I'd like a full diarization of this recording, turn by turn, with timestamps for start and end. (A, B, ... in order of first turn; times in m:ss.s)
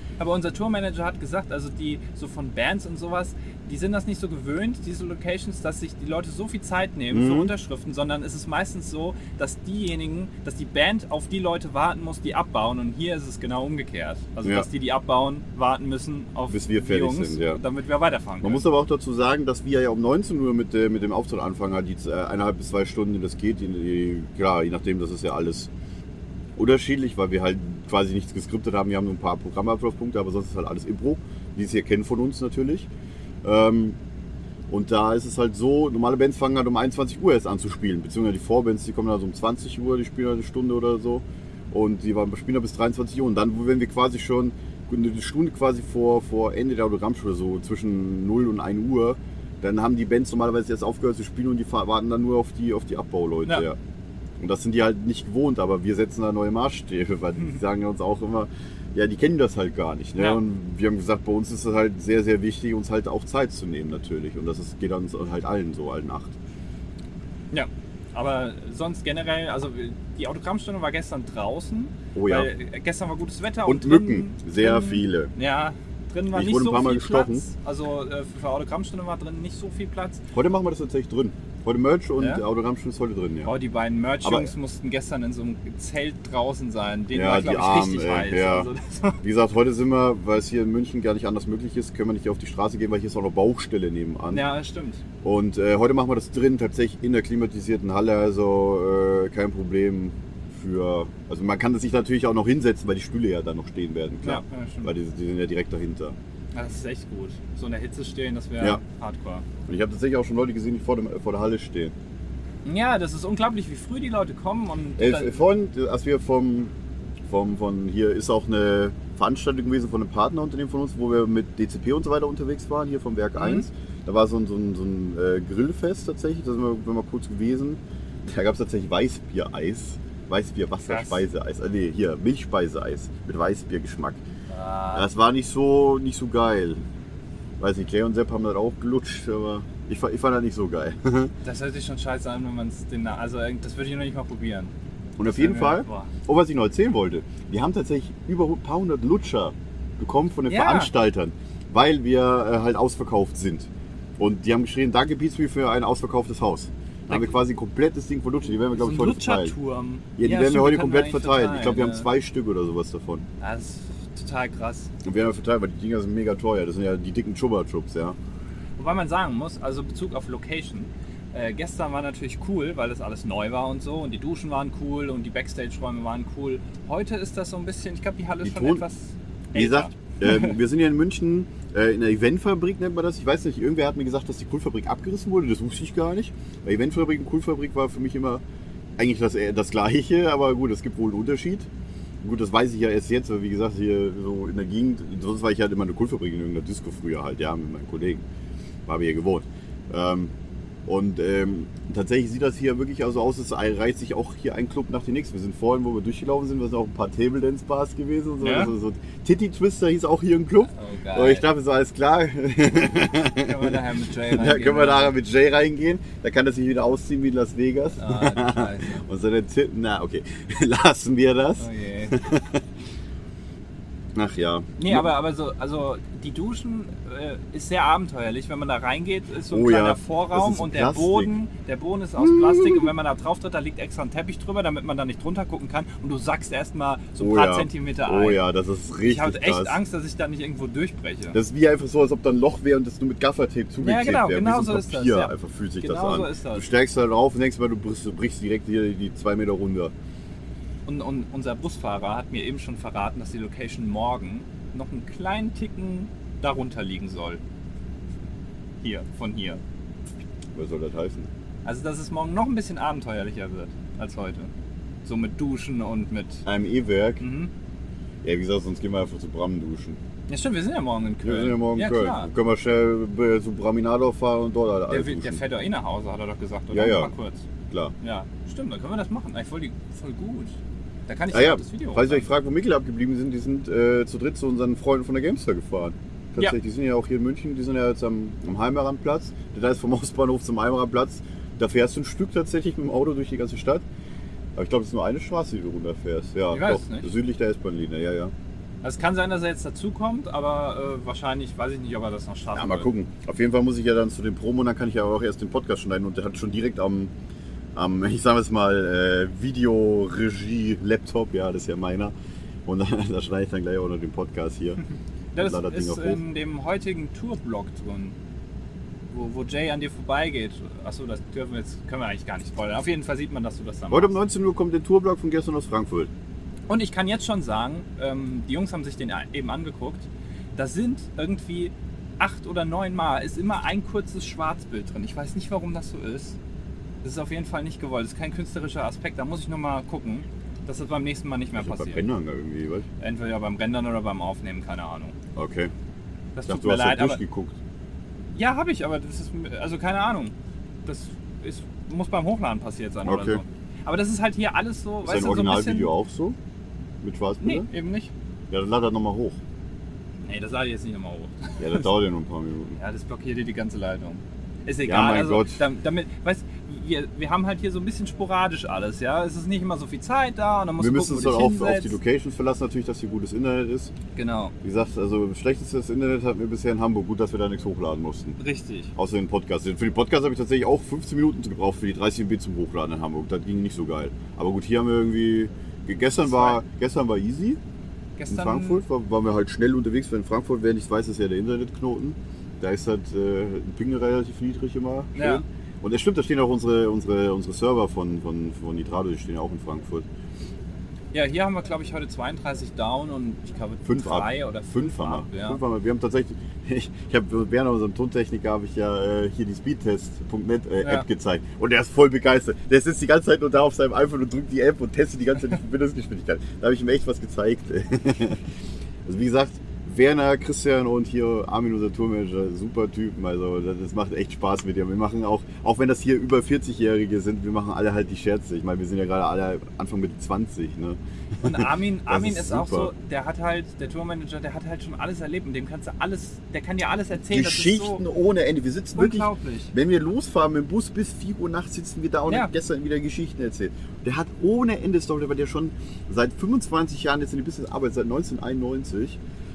0:00.2-0:18.6 A
0:07.1-0:07.5 B
0:16.5-0:17.6 B
0:18.4-0:25.7 B
0:26.6-0:32.9 B
0:33.4-0:34.0 B
0:34.7-0:53.8 B
0:54.4-1:06.3 B
1:07.5-1:20.2 A
1:12.1-1:12.5 B
1:13.6-1:15.3 B
1:16.3-1:17.4 B
1:20.3-1:23.5 B
1:22.2-1:22.4 A
1:23.4-1:29.2 A
1:24.2-1:24.5 B
1:27.1-1:28.7 B
1:29.2-1:34.4 B
1:34.3-1:35.0 A
1:35.2-1:46.2 B
1:44.2-1:44.9 A
1:46.5-1:49.4 A
1:49.7-1:51.9 B
1:52.6-1:55.4 A
1:55.0-1:56.7 B
1:57.3-2:14.2 B
2:03.4-2:03.6 A
2:10.8-2:11.2 A
2:14.5-2:15.1 A
2:14.9-2:16.8 B
2:17.6-2:21.3 B
2:21.4-2:24.7 A
2:25.2-2:39.5 B
2:25.2-2:26.1 A
2:30.5-2:30.9 A
2:37.1-2:37.4 A
2:38.7-2:42.1 A
2:40.2-2:43.2 B
2:43.4-2:44.9 A
2:45.0-2:48.2 B
2:48.8-3:00.5 A
2:58.4-2:58.8 B
2:59.5-3:08.4 B
3:09.0-3:11.7 B
3:12.2-3:18.2 B
3:18.8-3:20.3 B
3:20.8-3:42.6 B
3:28.4-3:28.7 A
3:30.7-3:31.5 A
3:33.3-3:35.1 A
3:38.0-3:39.0 A
3:41.6-3:42.2 A
3:44.1-3:45.1 B
3:44.8-3:58.4 A
3:49.5-3:51.3 B
3:52.2-3:52.9 B
3:57.2-3:59.8 B
3:59.0-4:01.4 A
4:01.3-4:09.9 B
4:03.8-4:06.7 A
4:10.8-4:17.4 A
4:18.8-4:19.6 A
4:20.5-4:21.3 B
4:21.6-4:24.5 A
4:25.0-4:26.4 A
4:26.4-4:27.2 B
4:27.2-4:27.5 A
4:28.2-4:30.0 B
4:30.3-4:32.3 A
4:31.2-4:35.4 B
4:34.9-4:37.4 A
4:36.7-4:37.1 B
4:38.0-4:40.5 A
4:41.1-4:42.3 A
4:41.3-4:53.8 B
4:54.5-4:58.3 B
4:56.5-4:57.1 A
4:58.8-5:02.9 A
5:02.5-5:07.1 B
5:07.7-5:12.1 B
5:12.6-5:14.8 B
5:15.3-5:18.2 A
5:15.4-5:16.2 B
5:19.1-5:24.1 A
5:23.9-5:26.1 B
5:26.7-5:36.4 A
5:37.0-5:42.0 A
5:41.6-5:42.9 B
5:43.0-5:45.1 A
5:45.4-5:45.7 B
5:46.3-5:47.2 A
5:46.4-5:47.6 B
5:48.3-5:50.3 A
5:50.8-5:55.9 A
5:53.0-5:53.4 B
5:55.0-5:56.4 B
5:57.0-5:57.7 B
5:57.4-5:58.1 A
5:58.5-5:59.4 B
6:00.2-6:01.9 A
6:01.6-6:02.8 B
6:02.8-6:12.0 A
6:04.8-6:05.6 B
6:10.8-6:13.9 B
6:14.2-6:14.5 A
6:14.6-6:18.4 B
6:18.4-6:18.9 A
6:18.9-6:27.6 B
6:26.2-6:26.6 A
6:28.2-6:28.8 A
6:28.3-6:40.0 B
6:35.1-6:35.4 A
6:41.1-6:45.6 A
6:43.8-6:58.4 B
6:50.8-6:51.1 A
6:59.0-7:12.9 B
7:11.4-7:18.0 A
7:17.2-7:29.2 B
7:18.9-7:19.7 A
7:22.2-7:22.5 A